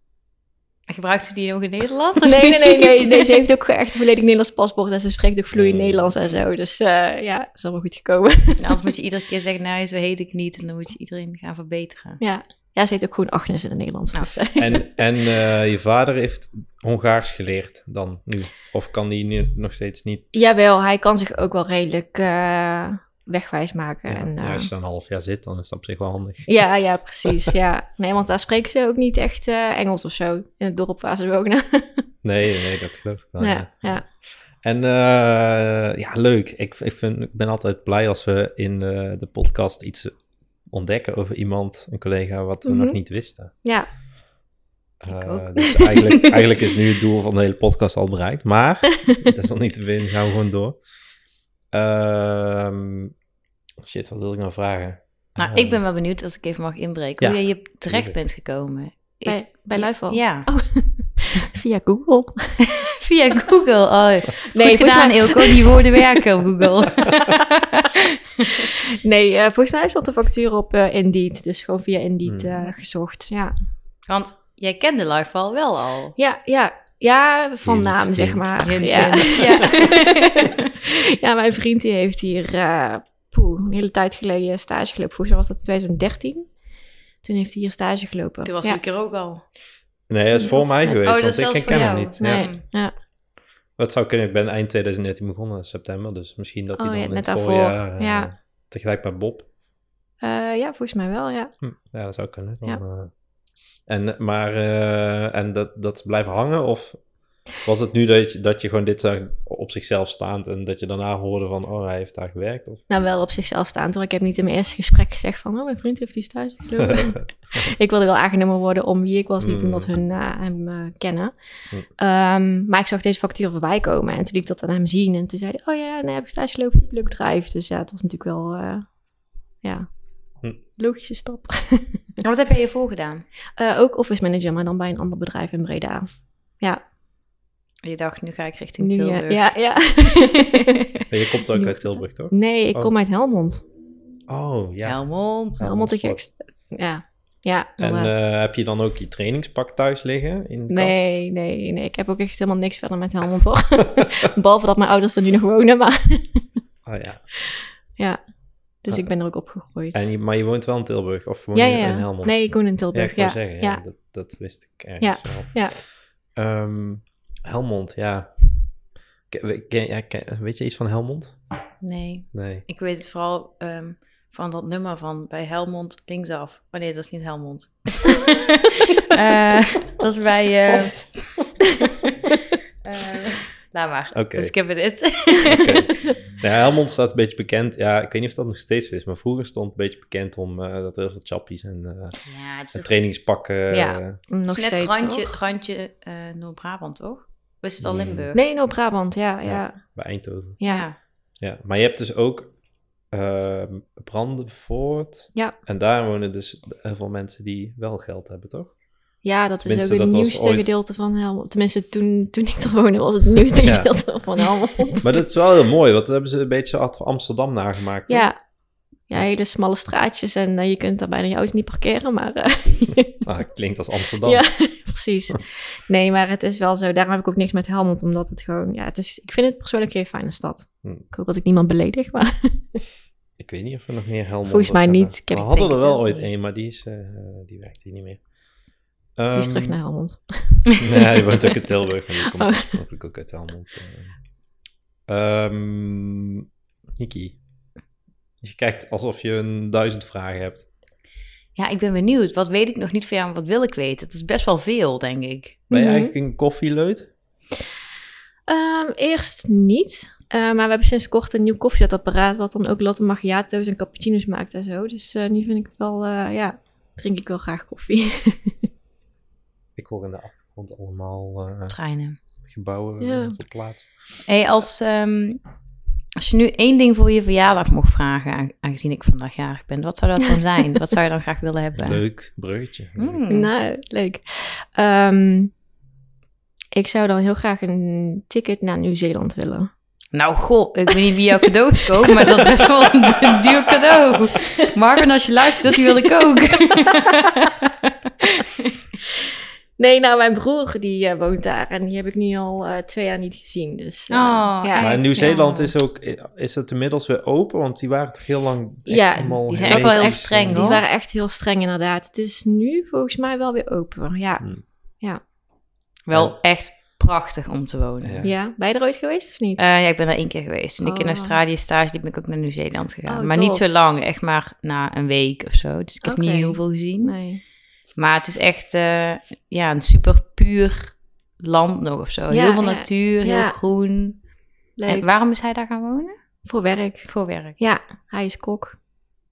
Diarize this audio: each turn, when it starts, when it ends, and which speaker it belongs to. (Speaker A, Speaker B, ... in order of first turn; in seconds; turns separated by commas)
Speaker A: 0.9-3.4, Speaker B: 2.2-8.9, Speaker C: 5.5-6.1, Speaker A: 8.6-12.2, Speaker B: 12.2-14.8, Speaker C: 14.6-20.4, Speaker B: 20.3-24.7, Speaker C: 24.1-26.6, Speaker B: 26.5-32.0, Speaker C: 32.2-34.0, Speaker B: 33.4-34.0, Speaker C: 34.6-43.5, Speaker B: 42.6-43.0, Speaker B: 43.5-43.9, Speaker C: 45.0-50.8, Speaker A: 45.1-46.3, Speaker C: 51.7-53.1, Speaker C: 53.8-55.8, Speaker A: 55.4-60.5, Speaker C: 57.2-58.1, Speaker B: 59.2-62.7, Speaker A: 62.8-68.7, Speaker B: 64.5-66.2, Speaker B: 68.6-73.5, Speaker C: 72.2-72.5, Speaker A: 74.1-76.2, Speaker B: 76.2-86.5, Speaker C: 77.6-79.7, Speaker A: 78.6-80.7, Speaker B: 87.2-88.8, Speaker A: 88.4-89.4, Speaker C: 90.1-92.5, Speaker B: 90.4-91.2, Speaker A: 91.0-92.6, Speaker B: 92.2-92.9, Speaker C: 93.8-99.5, Speaker B: 96.8-98.3, Speaker B: 100.2-101.5, Speaker C: 101.6-103.1, Speaker C: 103.8-112.8, Speaker B: 112.9-121.3, Speaker C: 119.4-119.9, Speaker B: 122.0-128.9, Speaker B: 129.6-129.9, Speaker B: 130.7-132.0, Speaker A: 132.2-133.2, Speaker B: 133.6-136.1, Speaker A: 137.8-139.4, Speaker B: 138.8-143.6, Speaker C: 141.1-142.9, Speaker C: 144.3-145.0, Speaker A: 144.8-145.7, Speaker C: 145.6-146.2, Speaker B: 145.6-148.2, Speaker C: 147.8-151.2, Speaker B: 150.7-156.4, Speaker C: 156.8-157.2, Speaker B: 157.5-158.2, Speaker B: 158.8-160.0, Speaker C: 159.9-168.7, Speaker B: 161.5-163.8, Speaker B: 165.0-165.8, Speaker C: 169.3-171.4, Speaker A: 171.8-181.6, Speaker C: 172.3-172.6, Speaker C: 180.7-181.1, Speaker A: 182.8-185.9, Speaker C: 184.1-184.5, Speaker C: 185.4-192.2, Speaker A: 192.2-192.9, Speaker C: 192.7-194.2, Speaker B: 193.7-195.3, Speaker A: 194.5-198.4, Speaker C: 197.8-198.3, Speaker B: 198.3-200.0, Speaker C: 199.4-200.6, Speaker B: 200.6-200.8, Speaker A: 200.7-201.0, Speaker C: 201.4-202.5, Speaker C: 203.1-208.7, Speaker B: 209.2-215.1, Speaker C: 209.6-210.7, Speaker C: 213.6-213.9, Speaker C: 215.0-218.3, Speaker B: 218.1-218.4, Speaker B: 219.1-223.2, Speaker C: 223.2-224.4, Speaker B: 224.2-232.8, Speaker C: 233.4-238.3, Speaker B: 234.5-235.9, Speaker A: 235.4-236.2, Speaker C: 239.2-239.8, Speaker B: 239.3-241.6, Speaker C: 240.8-244.2, Speaker B: 242.2-242.7, Speaker C: 245.1-246.4, Speaker C: 247.0-247.4, Speaker C: 248.4-250.7, Speaker A: 251.6-255.6, Speaker B: 255.7-256.1, Speaker C: 255.7-257.1, Speaker B: 258.5-268.6, Speaker C: 269.8-271.8, Speaker A: 271.7-272.2, Speaker C: 272.4-274.1, Speaker B: 273.0-273.4, Speaker A: 274.2-275.4, Speaker A: 276.2-282.1, Speaker C: 281.8-283.2, Speaker A: 283.0-283.5, Speaker B: 283.3-285.5, Speaker B: 286.7-289.7, Speaker A: 290.1-298.7, Speaker B: 291.8-292.6, Speaker B: 295.8-296.0, Speaker B: 299.8-305.3, Speaker A: 304.1-305.7, Speaker C: 304.8-310.8, Speaker B: 308.9-315.2, Speaker A: 309.5-310.8, Speaker A: 316.1-318.2, Speaker C: 316.1-316.4, Speaker C: 318.0-318.3, Speaker B: 318.2-319.6, Speaker A: 319.6-327.2, Speaker B: 320.8-321.4, Speaker B: 323.1-323.6, Speaker B: 326.0-327.4, Speaker A: 327.9-334.3, Speaker B: 332.3-333.6, Speaker B: 334.8-335.1, Speaker A: 334.9-336.1, Speaker B: 336.4-338.8, Speaker A: 337.1-337.6